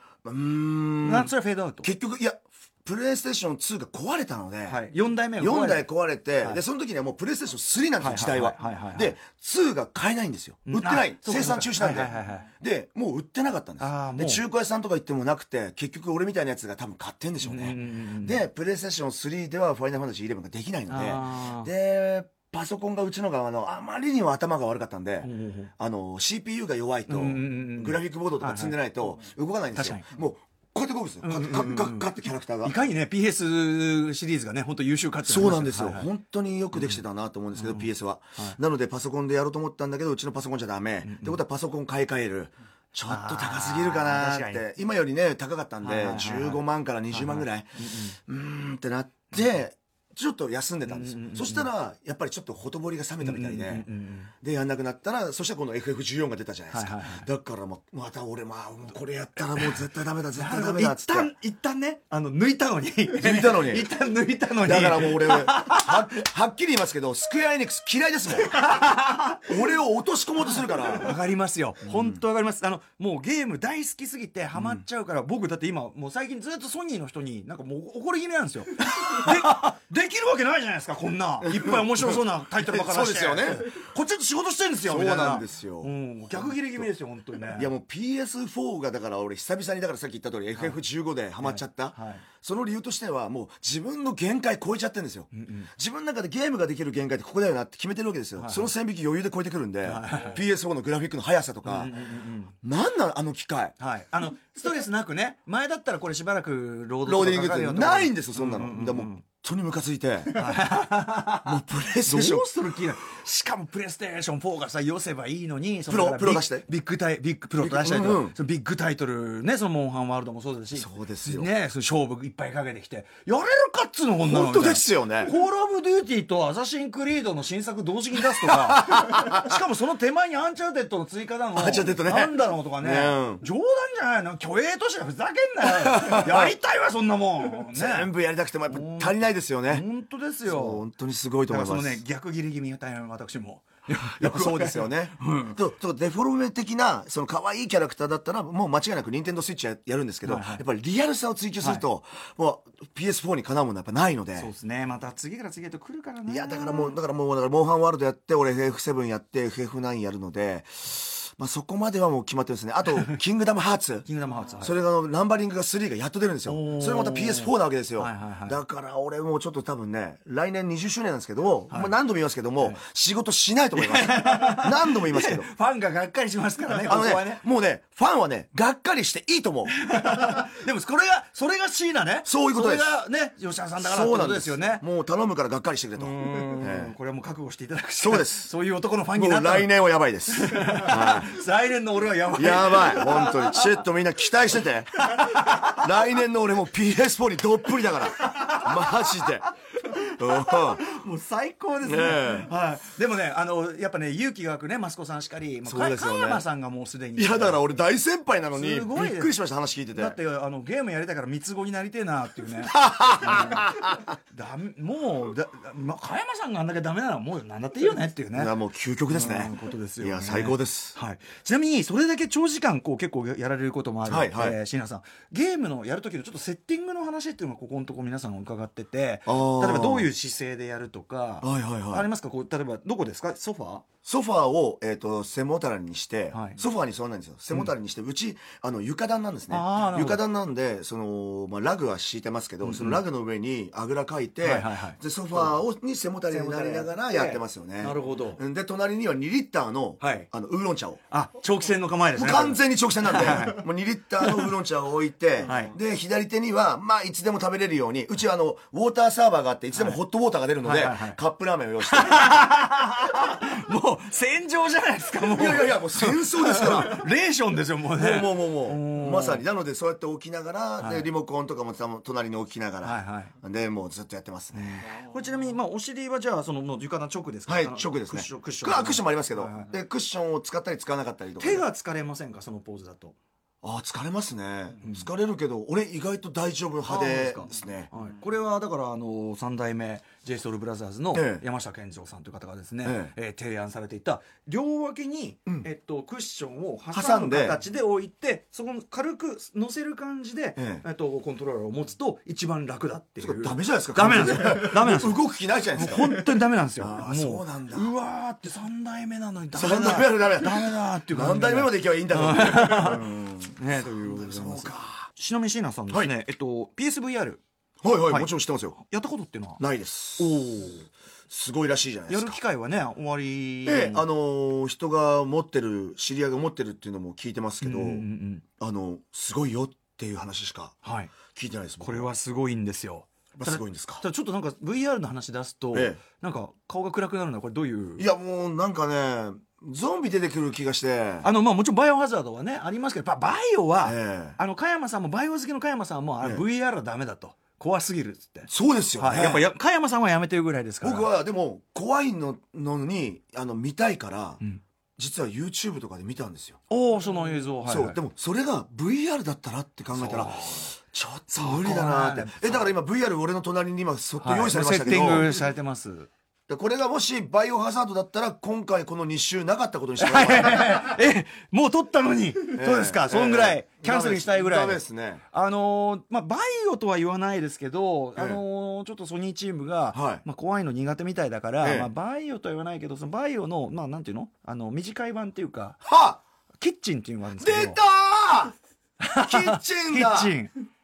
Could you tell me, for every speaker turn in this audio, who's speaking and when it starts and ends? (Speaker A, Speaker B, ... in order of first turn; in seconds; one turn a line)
Speaker A: 0.2-4.8
Speaker B: 1.0-1.9
Speaker B: 4.7-5.9
Speaker A: 5.4-32.8
Speaker B: 8.0-9.1
Speaker B: 10.7-12.5
Speaker B: 13.8-14.4
Speaker B: 17.4-18.4
Speaker B: 20.9-21.7
Speaker B: 25.2-25.7
Speaker B: 27.1-28.8
Speaker B: 29.8-30.1
Speaker B: 31.2-32.1
Speaker B: 32.6-36.1
Speaker A: 35.2-53.9
Speaker B: 36.7-37.0
Speaker B: 37.5-38.6
Speaker B: 41.0-41.4
Speaker B: 43.1-44.6
Speaker B: 45.8-48.2
Speaker B: 50.9-51.7
Speaker B: 53.2-54.3
Speaker A: 54.4-61.3
Speaker B: 56.7-57.3
Speaker B: 60.4-66.0
Speaker A: 63.1-63.9
Speaker A: 64.6-71.2
Speaker B: 68.5-69.4
Speaker B: 70.9-87.7
Speaker A: 71.9-72.2
Speaker A: 74.5-74.8
Speaker A: 81.4-83.9
Speaker A: 84.8-86.9
Speaker A: 87.5-101.9
Speaker B: 91.4-92.2
Speaker B: 95.3-95.7
Speaker B: 98.4-98.7
Speaker B: 99.8-100.4
Speaker B: 101.7-102.5
Speaker A: 102.6-103.8
Speaker B: 103.8-109.2
Speaker A: 107.0-110.4
Speaker B: 110.3-138.1
Speaker A: 111.5-112.5
Speaker A: 115.9-116.7
Speaker A: 117.6-118.4
Speaker A: 120.7-121.5
Speaker A: 124.2-125.3
Speaker A: 128.4-129.6
Speaker A: 131.6-133.4
Speaker A: 135.7-136.6
Speaker A: 137.7-139.9
Speaker B: 138.7-140.8
Speaker A: 140.4-142.0
Speaker B: 141.5-145.6
Speaker A: 144.1-154.5
Speaker B: 150.2-150.7
Speaker B: 154.4-156.9
Speaker A: 156.3-164.1
Speaker B: 164.1-164.8
Speaker A: 164.6-175.5
Speaker B: 166.5-168.6
Speaker B: 173.8-177.4
Speaker A: 176.7-179.8
Speaker B: 179.8-184.8
Speaker A: 182.2-183.0
Speaker A: 183.8-186.9
Speaker B: 186.0-189.7
Speaker A: 188.0-188.5
Speaker A: 189.1-191.3
Speaker B: 190.3-193.8
Speaker A: 192.3-199.5
Speaker B: 195.0-195.8
Speaker B: 198.2-199.3
Speaker B: 199.8-207.6
Speaker A: 200.2-200.8
Speaker A: 201.8-202.5
Speaker A: 205.7-206.4
Speaker A: 207.2-210.2
Speaker B: 208.5-209.3
Speaker B: 209.9-213.7
Speaker A: 212.7-214.2
Speaker B: 214.3-218.5
Speaker A: 218.3-221.0
Speaker B: 219.1-233.8
Speaker A: 224.1-224.6
Speaker A: 229.3-230.1
Speaker A: 231.4-232.1
Speaker A: 234.1-251.0
Speaker B: 236.3-236.6
Speaker B: 239.5-240.2
Speaker B: 242.6-243.0
Speaker B: 244.4-245.6
Speaker B: 246.3-248.4
Speaker B: 250.0-250.3
Speaker B: 251.1-253.7
Speaker A: 252.2-262.4
Speaker B: 254.2-254.5
Speaker B: 255.4-255.8
Speaker B: 260.6-261.2
Speaker B: 261.9-269.4
Speaker A: 265.2-267.1
Speaker A: 267.9-274.9
Speaker B: 270.8-271.1
Speaker B: 272.8-273.3
Speaker B: 274.6-279.7
Speaker A: 277.5-281.6
Speaker B: 281.4-283.1
Speaker A: 283.6-287.9
Speaker B: 284.8-285.1
Speaker B: 286.9-305.2
Speaker A: 291.1-291.4
Speaker A: 292.8-293.1
Speaker A: 296.9-297.6
Speaker A: 300.6-300.9
Speaker A: 303.2-306.3
Speaker B: 305.8-313.1
Speaker A: 306.8-307.9
Speaker A: 309.5-315.1
Speaker B: 313.6-317.4
Speaker A: 317.8-318.8
Speaker B: 318.1-319.6
Speaker A: 319.6-320.5
Speaker B: 320.2-320.9
Speaker A: 321.3-322.4
Speaker B: 322.1-324.1
Speaker A: 323.6-328.1
Speaker B: 327.6-328.4
Speaker A: 328.6-332.1
Speaker B: 330.8-331.1
Speaker B: 331.8-338.1
Speaker A: 333.4-334.0
Speaker A: 335.7-336.0
Speaker A: 338.0-341.3
Speaker B: 341.2-351.1
Speaker A: 343.8-344.4
Speaker A: 348.5-349.5
Speaker A: 350.8-354.4
Speaker A: 355.0-356.6
Speaker B: 356.7-358.0
Speaker A: 357.7-365.3
Speaker B: 359.9-360.7
Speaker B: 361.3-362.7
Speaker B: 364.2-366.1
Speaker A: 366.5-371.0
Speaker B: 370.0-385.8
Speaker A: 372.5-375.2
Speaker A: 378.2-378.4
Speaker A: 379.9-380.2
Speaker A: 381.6-381.9
Speaker A: 385.8-386.2
Speaker B: 386.6-387.8
Speaker A: 387.4-388.5
Speaker B: 389.0-390.5
Speaker A: 389.1-390.3